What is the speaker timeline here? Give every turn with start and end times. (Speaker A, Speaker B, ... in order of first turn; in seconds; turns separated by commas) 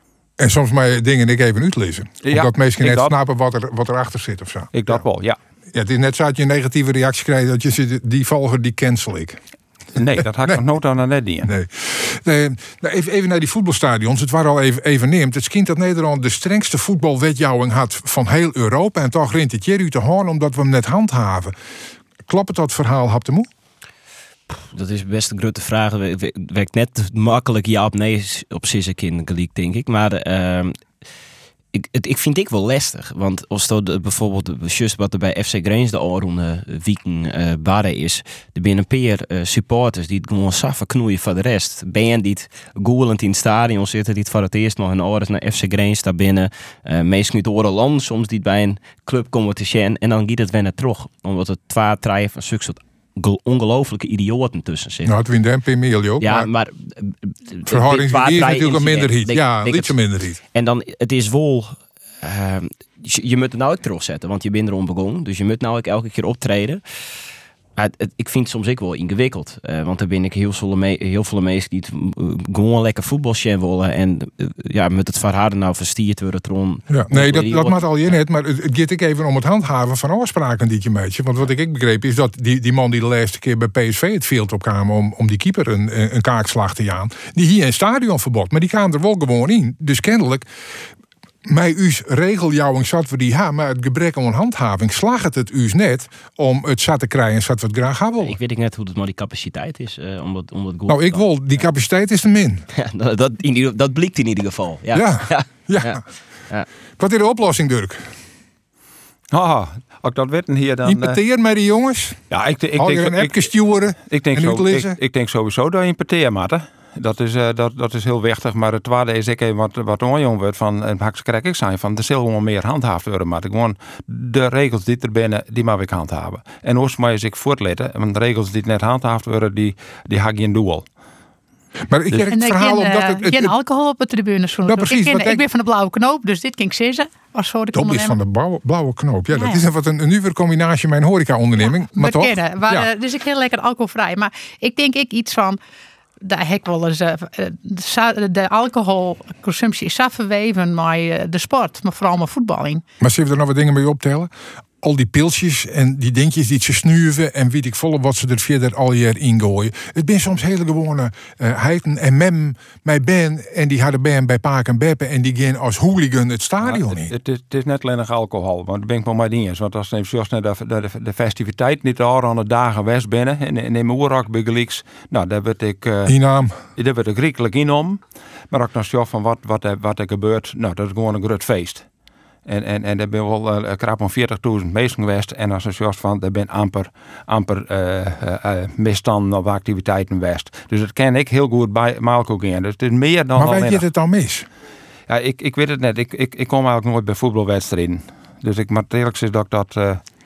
Speaker A: 0.4-5.0, Speaker B: 2.2-3.1, Speaker B: 4.7-5.4, Speaker A: 5.7-9.4, Speaker B: 10.0-11.5, Speaker A: 11.4-21.6, Speaker A: 22.3-23.5, Speaker C: 24.5-30.8, Speaker C: 31.7-55.1, Speaker A: 55.0-56.5, Speaker C: 56.2-60.0, Speaker A: 57.7-60.4, Speaker C: 60.5-66.8, Speaker C: 67.8-78.2, Speaker A: 76.9-90.5, Speaker A: 91.5-98.4, Speaker C: 98.2-101.2, Speaker A: 100.9-102.7, Speaker C: 102.7-106.7, Speaker A: 104.9-106.0, Speaker A: 107.0-108.1, Speaker B: 109.3-111.2, Speaker A: 110.8-112.2, Speaker B: 112.3-113.5, Speaker A: 112.8-115.0, Speaker B: 114.1-130.8, Speaker A: 131.9-133.5, Speaker D: 132.3-138.2, Speaker A: 134.7-135.4, Speaker A: 137.7-142.9, Speaker D: 139.3-139.6, Speaker D: 141.6-145.6, Speaker D: 146.2-152.8, Speaker A: 153.0-154.3, Speaker A: 154.8-167.1, Speaker B: 166.6-176.1, Speaker A: 176.1-176.6, Speaker B: 176.8-181.9, Speaker B: 182.5-193.8, Speaker A: 193.4-194.5, Speaker B: 195.1-200.0